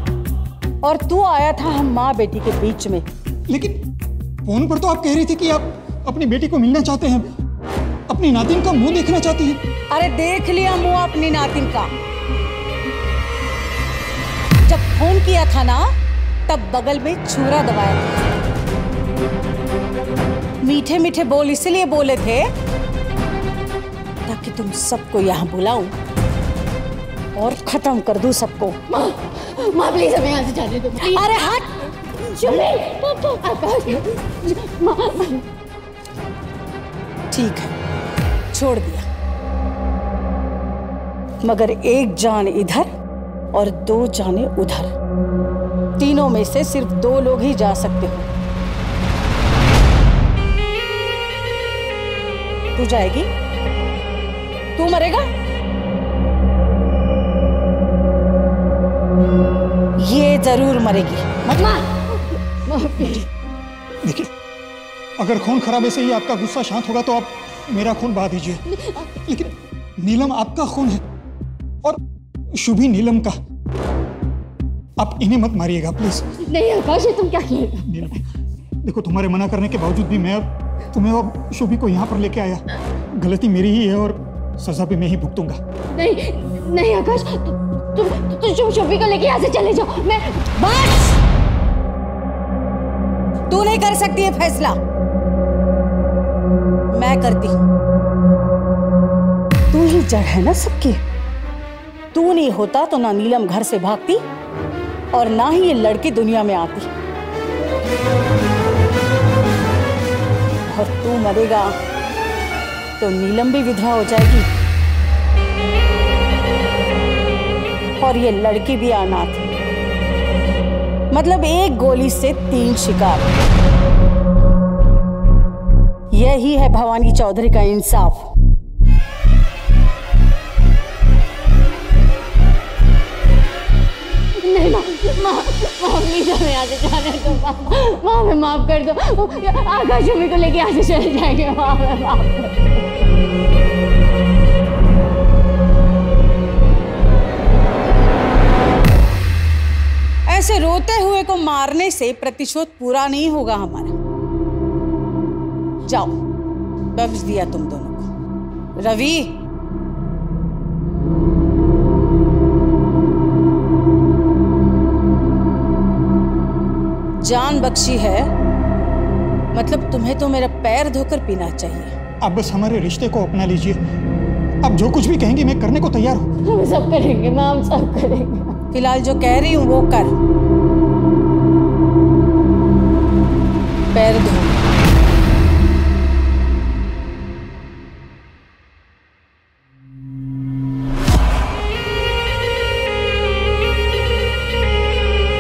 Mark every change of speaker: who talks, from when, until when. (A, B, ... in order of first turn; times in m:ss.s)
0:00.8-0:03.1 A
0:03.5-0:03.8 B
0:04.4-0:07.3 B
0:08.1-0:09.6 B
0:09.9-0:11.9 A
0:14.6-0:15.9 A
0:16.5-0:18.1 A
0:20.6-0:22.5 A
0:24.3-0:26.0 A
0:27.4-0:28.8 A
0:28.9-0:31.3 C
0:31.0-0:31.8 A
0:32.2-0:35.5 C
0:37.3-0:37.7 A
0:38.5-0:39.1 A
0:41.4-0:42.9 A
0:43.5-0:44.9 A
0:46.0-0:48.3 A
0:52.8-0:53.3 A
0:54.8-0:55.3 A
1:00.0-1:01.3 A
1:01.5-1:03.3 C
1:04.0-1:04.3 B
1:05.2-1:08.6 B
1:09.2-1:11.0 B
1:12.5-1:13.4 B
1:15.0-1:16.3 B
1:16.4-1:17.9 C
1:17.8-1:18.2 B
1:18.8-1:25.6 B
1:25.9-1:31.0 C
1:30.6-1:31.0 A
1:33.5-1:34.8 A
1:36.9-1:37.6 A
1:39.7-1:41.0 A
1:42.1-1:44.2 A
1:45.1-1:46.9 A
1:50.7-1:51.8 A
1:53.0-1:54.5 A
1:58.0-1:59.5 A
2:01.1-2:03.3 A
2:06.1-2:08.3 A
2:14.4-2:22.7 C
2:30.3-2:33.9 A
2:35.9-2:36.2 A
2:36.9-2:38.1 A
2:38.8-2:39.4 A
2:47.2-2:48.3 A
2:49.5-2:52.0 A
2:52.2-2:53.8 B
2:54.6-2:56.3 B
2:56.4-2:58.6 C
2:58.7-3:00.1 A
3:03.9-3:04.6 A